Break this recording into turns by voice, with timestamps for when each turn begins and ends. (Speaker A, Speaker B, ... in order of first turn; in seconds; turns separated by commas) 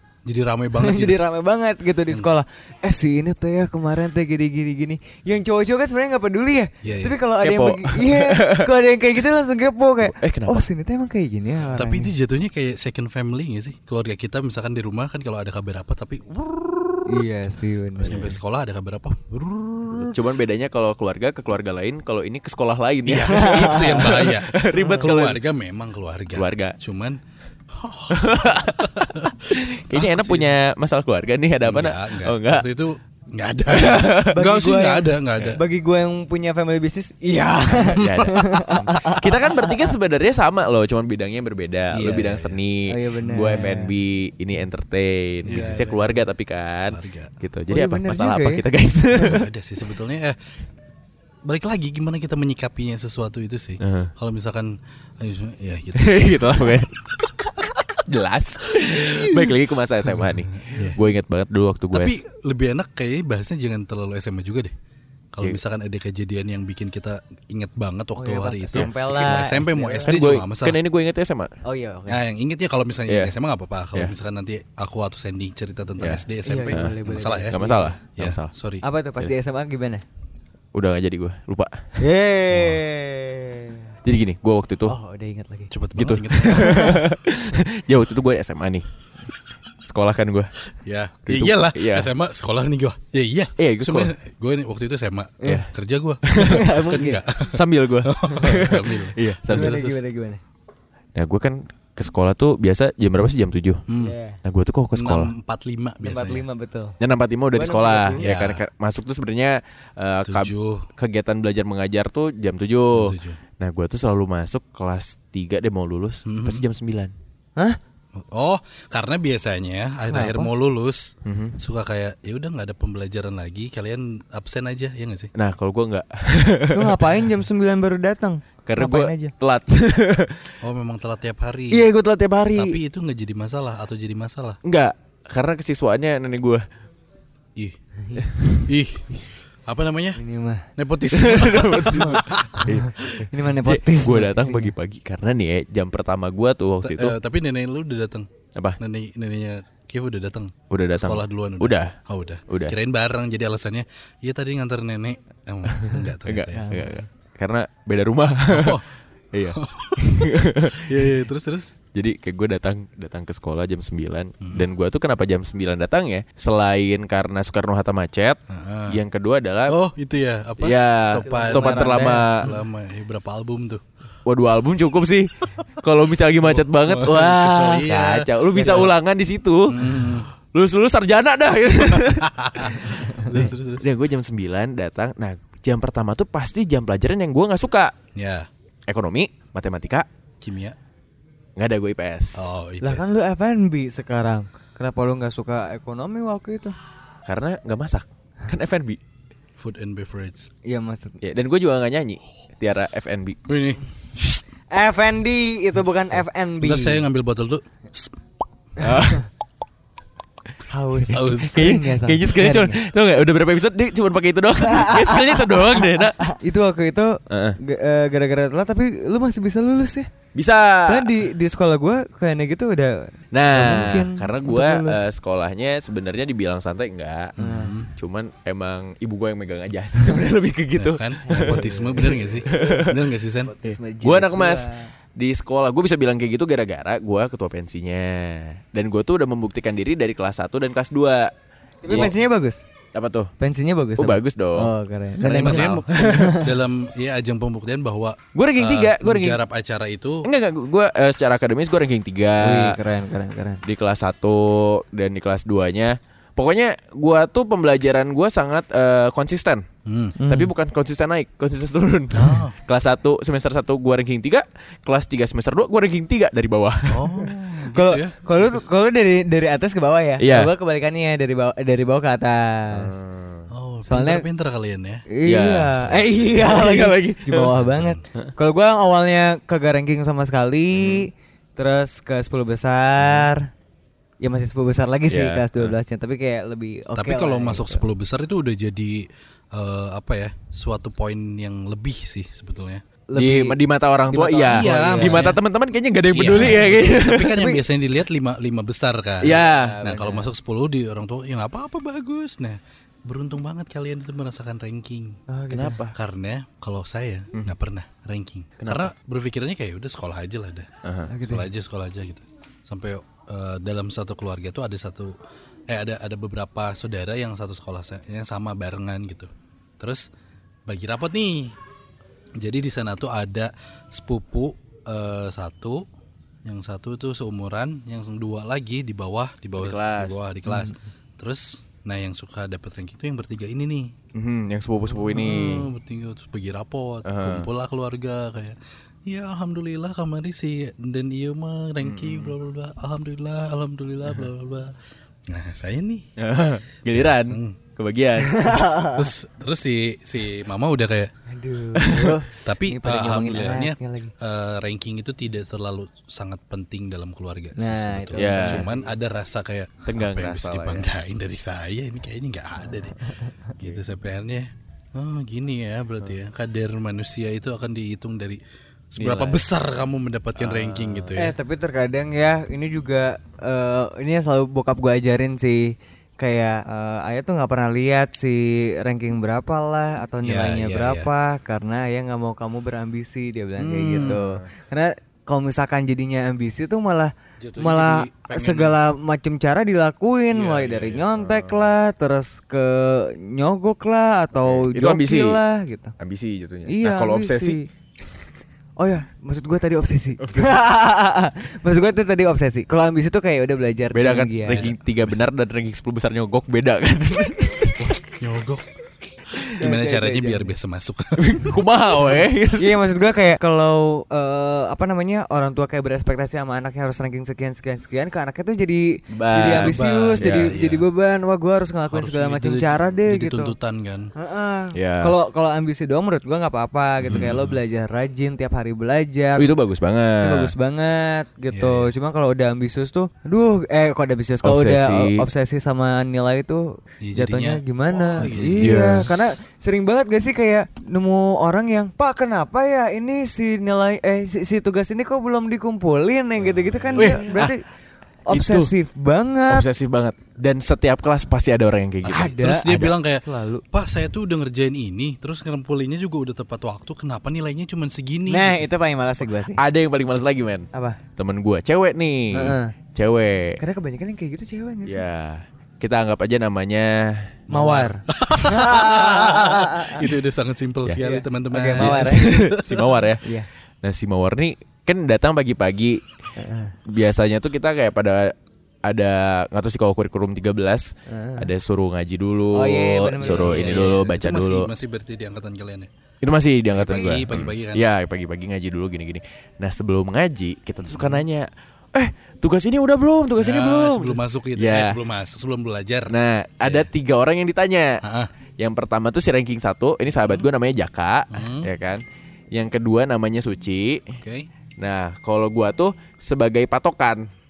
Speaker A: 0.2-1.2, Speaker B: 0.8-12.1, Speaker A: 6.8-7.2, Speaker C: 7.4-8.7, Speaker C: 10.0-10.7, Speaker A: 11.7-17.2, Speaker B: 17.1-18.3, Speaker C: 18.0-18.3, Speaker A: 18.0-20.2, Speaker C: 20.0-25.4, Speaker A: 23.0-27.2, Speaker B: 23.3-25.1, Speaker C: 26.4-26.8, Speaker A: 27.7-30.6, Speaker C: 28.1-32.7, Speaker A: 31.6-35.6, Speaker C: 33.7-34.4, Speaker B: 34.3-39.9, Speaker C: 37.9-49.5, Speaker A: 38.0-39.1, Speaker A: 41.9-42.6, Speaker B: 42.9-43.9, Speaker A: 45.4-45.9, Speaker B: 45.5-46.2, Speaker A: 46.9-47.3, Speaker B: 47.7-48.7, Speaker A: 49.3-50.4, Speaker A: 51.5-57.5, Speaker C: 53.8-54.1, Speaker C: 55.9-62.2, Speaker A: 58.9-59.5, Speaker A: 60.6-61.0, Speaker A: 61.9-64.7, Speaker A: 65.3-70.8, Speaker B: 68.2-70.2, Speaker C: 70.0-71.5, Speaker B: 71.6-72.2, Speaker A: 72.1-77.6, Speaker C: 76.0-78.5, Speaker B: 76.5-77.9, Speaker A: 78.2-78.8, Speaker B: 78.8-80.0, Speaker C: 80.7-82.0, Speaker B: 82.0-83.9, Speaker A: 82.5-82.8, Speaker C: 84.0-84.9, Speaker B: 84.9-85.7, Speaker A: 85.7-86.8, Speaker C: 86.0-88.9, Speaker B: 86.4-87.0, Speaker C: 89.8-90.6, Speaker A: 90.7-100.0, Speaker C: 91.3-92.1, Speaker C: 93.6-94.1, Speaker C: 96.3-96.7, Speaker B: 96.3-97.2, Speaker C: 97.5-99.8, Speaker B: 98.2-98.8, Speaker B: 99.5-100.4, Speaker C: 101.2-103.8, Speaker A: 103.9-104.1, Speaker B: 104.0-104.4, Speaker C: 104.4-105.3, Speaker A: 104.9-106.4, Speaker B: 106.0-106.9, Speaker C: 107.0-117.1, Speaker B: 107.5-108.3, Speaker A: 108.2-108.6, Speaker A: 110.3-110.9, Speaker A: 112.9-113.4, Speaker A: 116.2-116.7, Speaker A: 118.1-125.3, Speaker B: 120.1-120.5, Speaker C: 121.2-121.6, Speaker C: 125.3-127.0, Speaker B: 126.7-129.3, Speaker C: 128.7-130.5, Speaker A: 130.6-131.9, Speaker C: 131.7-132.5, Speaker B: 131.8-132.7, Speaker A: 132.5-134.6, Speaker C: 134.6-136.6, Speaker C: 138.2-138.6, Speaker A: 138.7-140.2, Speaker B: 140.2-140.7, Speaker A: 140.8-143.2, Speaker C: 141.1-147.2, Speaker B: 141.8-144.7, Speaker A: 146.8-156.7, Speaker C: 150.7-151.9, Speaker C: 152.5-152.8, Speaker C: 155.7-158.8, Speaker B: 156.5-157.0, Speaker A: 158.5-158.8, Speaker C: 159.3-161.1, Speaker A: 159.5-161.7, Speaker C: 161.9-169.8, Speaker A: 164.4-164.7, Speaker A: 168.5-169.0, Speaker A: 169.7-173.8, Speaker C: 170.6-172.5, Speaker B: 171.2-172.6, Speaker C: 174.2-187.9, Speaker A: 176.4-178.9, Speaker B: 178.5-178.9, Speaker A: 179.7-180.3, Speaker A: 182.2-183.9, Speaker A: 188.1-188.5, Speaker C: 188.9-190.1, Speaker A: 190.4-190.8, Speaker C: 191.6-192.6, Speaker A: 192.3-193.1, Speaker B: 192.8-196.8, Speaker C: 197.2-199.0, Speaker A: 199.6-200.5, Speaker B: 200.7-201.2, Speaker C: 201.2-203.4, Speaker A: 203.5-203.8, Speaker B: 204.7-207.0, Speaker A: 206.6-208.2, Speaker C: 208.8-209.3, Speaker B: 210.7-212.8, Speaker A: 211.1-211.6, Speaker C: 211.2-216.3, Speaker B: 214.7-220.1, Speaker C: 217.3-217.6, Speaker C: 220.3-221.2, Speaker B: 220.8-225.1, Speaker C: 223.3-227.3, Speaker A: 227.4-227.9, Speaker B: 227.4-227.7, Speaker C: 227.9-233.0, Speaker A: 230.8-233.5, Speaker B: 231.3-232.9, Speaker B: 233.4-234.9, Speaker C: 233.6-241.3, Speaker B: 241.8-242.6, Speaker C: 241.9-242.1, Speaker C: 242.9-243.3, Speaker B: 243.4-246.6, Speaker C: 244.0-246.2, Speaker A: 245.4-250.3, Speaker C: 248.3-249.4, Speaker C: 250.2-252.8, Speaker B: 252.4-253.6, Speaker C: 253.6-259.6, Speaker A: 259.9-260.1, Speaker B: 260.2-260.5, Speaker C: 260.3-267.1, Speaker A: 262.1-262.5, Speaker A: 266.9-268.2, Speaker B: 267.2-273.0, Speaker C: 270.2-270.5, Speaker C: 272.7-273.4, Speaker A: 273.5-275.0, Speaker B: 273.9-274.3, Speaker B: 275.1-283.5, Speaker C: 275.3-275.8, Speaker A: 275.9-276.1, Speaker C: 276.4-277.5, Speaker A: 277.6-278.0, Speaker C: 280.8-281.0, Speaker B: 284.2-287.8, Speaker C: 285.1-285.7, Speaker A: 286.9-292.8, Speaker B: 293.1-293.6, Speaker C: 293.2-297.4, Speaker B: 294.1-295.4, Speaker A: 294.4-295.4, Speaker A: 296.1-305.2, Speaker B: 296.2-297.6, Speaker C: 299.2-299.8, Speaker B: 299.3-300.3, Speaker B: 305.3-305.8, Speaker C: 305.5-305.9, Speaker A: 305.9-310.7, Speaker C: 308.6-308.9, Speaker C: 310.8-311.1, Speaker B: 311.1-311.5, Speaker A: 311.2-315.2, Speaker A: 315.7-320.1, Speaker A: 320.7-321.5, Speaker A: 322.4-325.8, Speaker A: 326.4-333.9, Speaker C: 329.6-330.2, Speaker B: 330.5-330.7, Speaker C: 334.1-335.7, Speaker A: 334.9-344.8, Speaker C: 337.0-337.5, Speaker C: 341.8-342.3, Speaker A: 345.3-346.0, Speaker C: 346.2-348.5, Speaker A: 346.9-347.6, Speaker B: 348.2-349.1, Speaker A: 348.8-351.1, Speaker B: 351.3-354.1, Speaker C: 351.8-352.2, Speaker A: 352.4-371.3, Speaker B: 357.6-358.9, Speaker C: 358.2-358.7, Speaker C: 359.9-360.9, Speaker B: 363.0-363.5, Speaker C: 369.0-369.4, Speaker C: 370.4-371.2, Speaker B: 371.2-395.9, Speaker A: 380.2-381.1, Speaker A: 383.6-384.2, Speaker C: 384.1-384.3, Speaker A: 387.4-388.8, Speaker A: 390.3-390.9, Speaker C: 390.5-391.7, Speaker C: 394.4-395.4, Speaker C: 396.0-397.6, Speaker B: 396.7-397.7, Speaker B: 398.8-404.7, Speaker C: 400.2-400.6, Speaker C: 403.9-408.0, Speaker A: 404.5-405.2, Speaker A: 408.2-408.7, Speaker A: 409.3-411.6, Speaker B: 409.5-410.5, Speaker C: 411.2-412.7, Speaker B: 412.6-423.5, Speaker C: 419.1-420.5, Speaker A: 419.6-420.8, Speaker A: 421.9-424.1, Speaker B: 424.1-429.5, Speaker C: 424.7-425.1, Speaker A: 427.0-427.6, Speaker C: 429.4-430.5, Speaker B: 430.2-447.6, Speaker A: 431.5-431.9, Speaker C: 434.4-435.2, Speaker A: 437.0-438.7, Speaker C: 438.2-439.1, Speaker A: 446.7-447.5, Speaker C: 446.9-447.5, Speaker B: 448.3-449.6, Speaker C: 448.3-448.7, Speaker C: 449.5-452.8, Speaker B: 452.0-453.6, Speaker A: 452.2-458.6, Speaker B: 458.3-459.6, Speaker C: 459.6-463.6, Speaker B: 460.7-461.0, Speaker B: 462.3-462.7, Speaker B: 463.6-465.0, Speaker C: 464.9-467.3, Speaker B: 467.5-470.1, Speaker A: 467.5-473.1, Speaker B: 471.0-472.3, Speaker C: 471.7-473.2, Speaker B: 473.2-473.5, Speaker C: 473.8-476.2, Speaker B: 476.4-476.8, Speaker C: 476.9-478.3, Speaker C: 478.9-484.7, Speaker B: 481.1-481.5, Speaker B: 482.5-483.9, Speaker A: 483.2-485.9, Speaker C: 486.2-495.0, Speaker A: 486.7-487.9, Speaker B: 486.8-487.2, Speaker A: 490.8-491.2, Speaker A: 493.4-496.9, Speaker C: 496.1-498.0, Speaker A: 498.0-498.3, Speaker C: 498.6-504.2, Speaker A: 501.3-501.7, Speaker A: 504.2-504.5, Speaker C: 504.8-507.3